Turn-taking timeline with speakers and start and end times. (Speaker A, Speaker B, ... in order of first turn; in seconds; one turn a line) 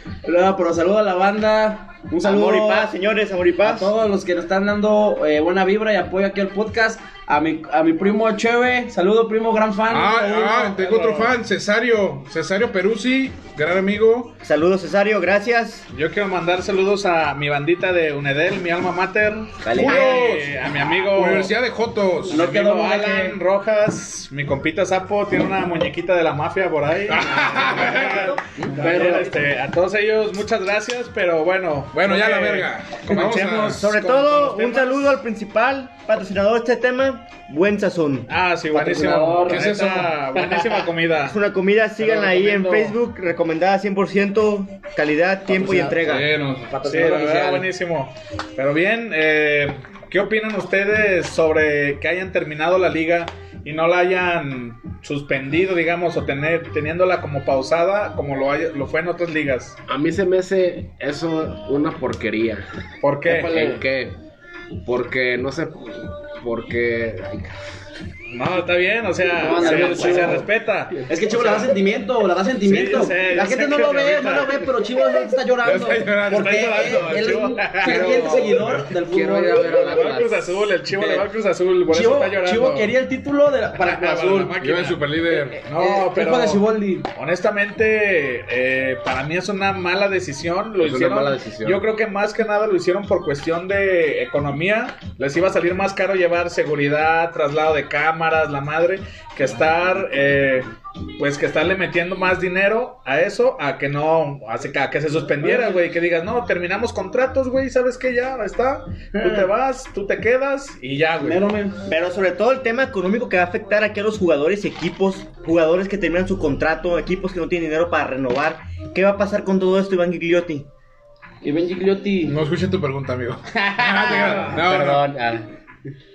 Speaker A: 0.2-2.9
Speaker B: 2.2-4.0
Speaker A: 3.6-10.2
Speaker C: 9.9-14.4
Speaker D: 10.1-11.3
Speaker B: 14.4-15.8
Speaker D: 15.9-21.5
Speaker A: 19.6-20.1
Speaker C: 19.7-22.5
Speaker A: 22.3-23.4
Speaker D: 22.3-35.2
Speaker C: 27.1-28.4
Speaker A: 28.1-29.3
Speaker E: 28.8-29.2
Speaker C: 31.9-33.9
Speaker B: 33.7-38.3
Speaker D: 38.3-41.4
Speaker A: 38.7-39.7
Speaker C: 39.5-40.2
Speaker A: 40.4-40.8
Speaker B: 41.2-46.3
Speaker A: 42.0-43.0
Speaker A: 45.5-46.0
Speaker C: 46.0-46.7
Speaker A: 46.7-47.7
Speaker D: 46.8-59.8
Speaker E: 59.9-62.6
Speaker D: 63.0-63.5
Speaker A: 63.3-63.9
Speaker E: 63.3-64.2
Speaker E: 64.8-67.5
Speaker D: 68.3-71.8
Speaker A: 69.4-70.5
Speaker E: 69.6-70.4
Speaker A: 71.1-81.3
Speaker D: 72.6-75.2
Speaker C: 75.6-77.1
Speaker D: 76.3-78.8
Speaker C: 77.8-78.9
Speaker E: 78.9-80.4
Speaker D: 79.5-82.9
Speaker A: 81.9-84.6
Speaker D: 83.7-111.5
Speaker C: 84.6-85.6
Speaker A: 85.6-87.1
Speaker E: 90.8-91.8
Speaker A: 105.4-105.8
Speaker A: 109.1-109.5
Speaker A: 111.2-111.8
Speaker B: 111.9-120.7
Speaker A: 121.4-122.4
Speaker C: 122.2-125.1
Speaker A: 123.5-124.6
Speaker E: 124.4-125.5